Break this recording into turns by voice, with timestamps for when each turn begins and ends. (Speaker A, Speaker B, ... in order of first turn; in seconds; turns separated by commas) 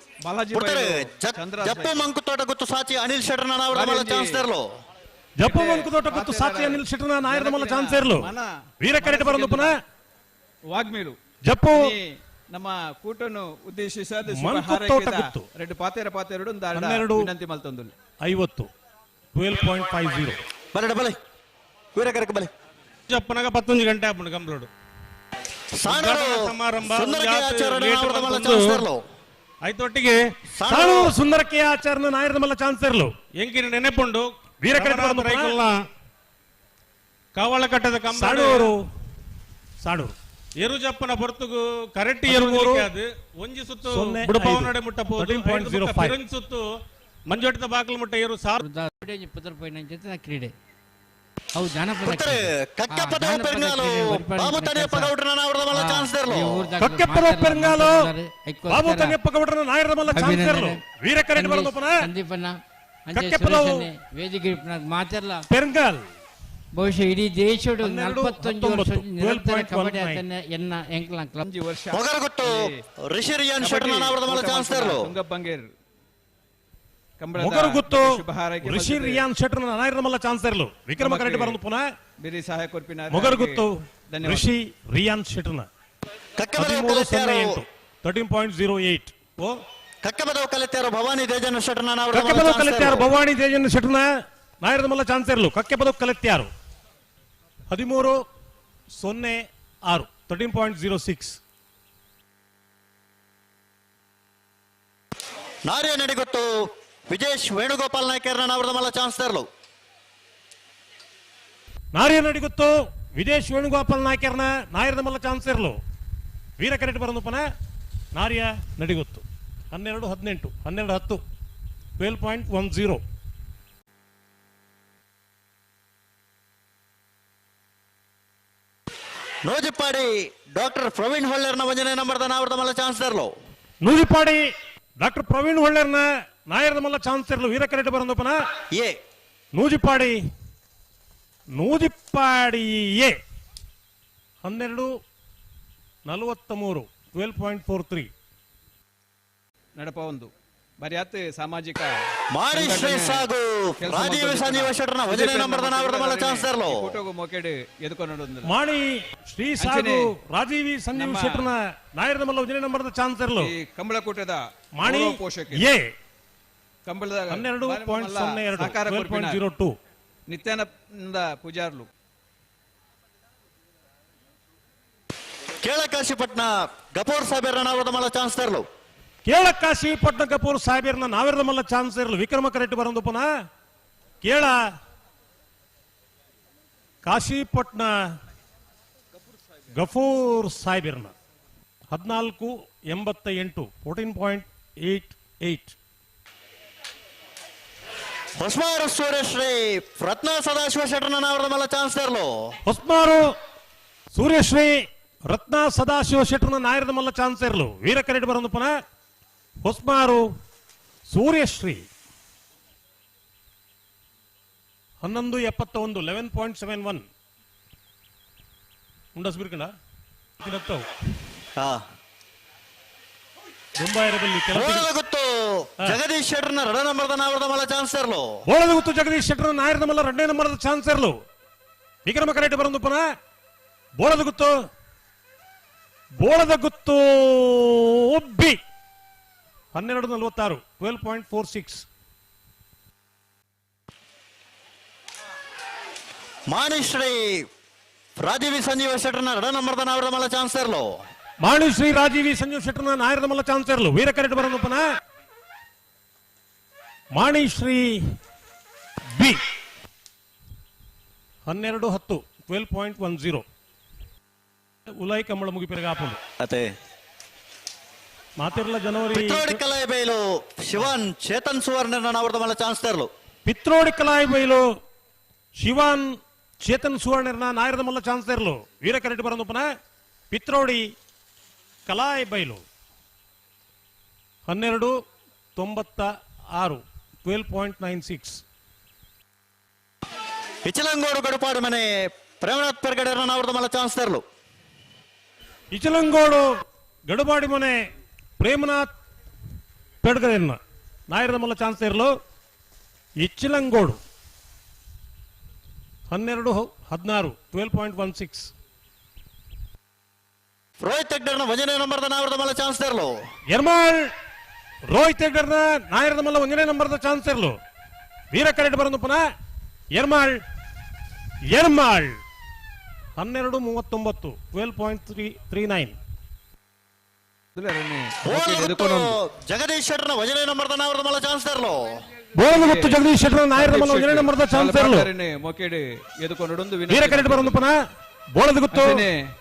Speaker A: 0.2-2.1, Speaker B: 0.5-4.6, Speaker A: 3.7-4.4, Speaker C: 5.4-9.8, Speaker A: 5.4-8.4, Speaker A: 9.0-9.8, Speaker A: 10.7-11.2, Speaker C: 11.5-11.9, Speaker A: 11.7-17.9, Speaker C: 14.3-15.5, Speaker C: 16.7-17.3, Speaker C: 18.2-18.7, Speaker C: 19.3-20.4, Speaker B: 20.7-21.1, Speaker B: 21.9-22.5, Speaker D: 23.1-24.7, Speaker B: 25.8-29.0, Speaker D: 25.8-28.8, Speaker D: 29.6-30.2, Speaker B: 30.6-31.1, Speaker C: 30.7-33.1, Speaker D: 33.4-35.9, Speaker C: 34.6-35.6, Speaker D: 37.3-38.7, Speaker C: 38.1-38.8, Speaker C: 39.8-40.1, Speaker D: 40.6-46.6, Speaker C: 42.2-42.9, Speaker C: 43.9-46.2, Speaker D: 47.3-48.6, Speaker E: 48.6-50.5, Speaker E: 51.5-55.1, Speaker B: 52.0-56.7, Speaker E: 55.7-59.2, Speaker C: 56.8-58.1, Speaker C: 58.7-62.1, Speaker E: 60.1-60.8, Speaker E: 61.3-62.5, Speaker E: 63.1-65.4, Speaker C: 63.1-63.9, Speaker C: 65.5-66.0, Speaker E: 66.8-71.4, Speaker C: 67.8-70.2, Speaker A: 71.4-72.7, Speaker B: 71.9-75.1, Speaker A: 73.6-75.7, Speaker A: 77.2-79.2, Speaker C: 77.3-81.8, Speaker A: 81.0-81.6, Speaker A: 82.2-84.5, Speaker C: 83.1-85.7, Speaker B: 86.4-87.6, Speaker C: 86.6-89.5, Speaker B: 90.0-93.1, Speaker C: 92.1-94.1, Speaker C: 94.6-96.5, Speaker C: 97.7-98.2, Speaker C: 98.9-101.4, Speaker B: 105.7-109.5, Speaker C: 111.9-115.8, Speaker C: 116.6-117.5, Speaker C: 118.1-121.2, Speaker C: 122.0-123.0, Speaker B: 129.4-133.3, Speaker C: 133.8-134.4, Speaker C: 135.0-138.4, Speaker C: 139.5-140.2, Speaker C: 141.6-143.2, Speaker C: 144.4-144.9, Speaker C: 146.1-148.1, Speaker A: 149.8-151.9, Speaker B: 152.3-156.9, Speaker A: 152.5-153.3, Speaker A: 153.8-158.5, Speaker C: 158.4-163.5, Speaker A: 159.6-160.1, Speaker A: 160.9-161.5, Speaker A: 163.4-165.7, Speaker C: 164.8-165.9, Speaker A: 166.8-169.4, Speaker C: 167.3-169.7, Speaker A: 170.3-171.9, Speaker B: 175.6-178.7, Speaker C: 179.2-183.3, Speaker C: 184.2-184.6, Speaker C: 187.0-187.9, Speaker C: 189.8-191.1, Speaker C: 191.9-195.8, Speaker B: 198.4-202.5, Speaker C: 202.7-203.3, Speaker C: 204.1-208.7, Speaker C: 209.6-210.2, Speaker C: 211.1-211.9, Speaker C: 215.0-217.0, Speaker C: 219.1-219.7, Speaker C: 220.4-220.9, Speaker C: 223.8-224.9, Speaker B: 224.5-228.4, Speaker C: 228.5-231.1, Speaker C: 232.0-233.0, Speaker C: 234.0-234.5, Speaker C: 236.2-238.6, Speaker C: 239.7-241.8, Speaker B: 246.5-247.4, Speaker B: 248.2-251.0, Speaker C: 251.4-254.8, Speaker C: 257.1-258.0, Speaker C: 259.1-259.4, Speaker C: 261.5-263.4, Speaker C: 264.9-266.2, Speaker B: 266.4-266.7, Speaker C: 268.4-269.6, Speaker B: 269.1-273.1, Speaker C: 273.4-274.6, Speaker C: 275.6-279.6, Speaker C: 280.3-280.9, Speaker C: 281.9-282.6, Speaker C: 284.5-284.9, Speaker C: 285.6-288.4, Speaker B: 290.6-294.2, Speaker C: 295.7-296.5, Speaker C: 297.1-297.8, Speaker C: 298.4-298.9, Speaker C: 300.0-300.6, Speaker C: 301.1-302.1, Speaker C: 303.2-304.0, Speaker C: 306.1-308.5, Speaker B: 310.8-313.1, Speaker C: 313.5-314.0, Speaker C: 314.9-317.6, Speaker C: 318.3-319.2, Speaker C: 319.9-320.4, Speaker C: 321.5-322.1, Speaker C: 323.2-325.9, Speaker A: 327.6-329.2, Speaker B: 328.2-331.9, Speaker C: 332.3-335.1, Speaker A: 332.4-333.0, Speaker A: 333.5-337.6, Speaker C: 336.9-337.7, Speaker C: 338.3-339.0, Speaker A: 338.7-339.2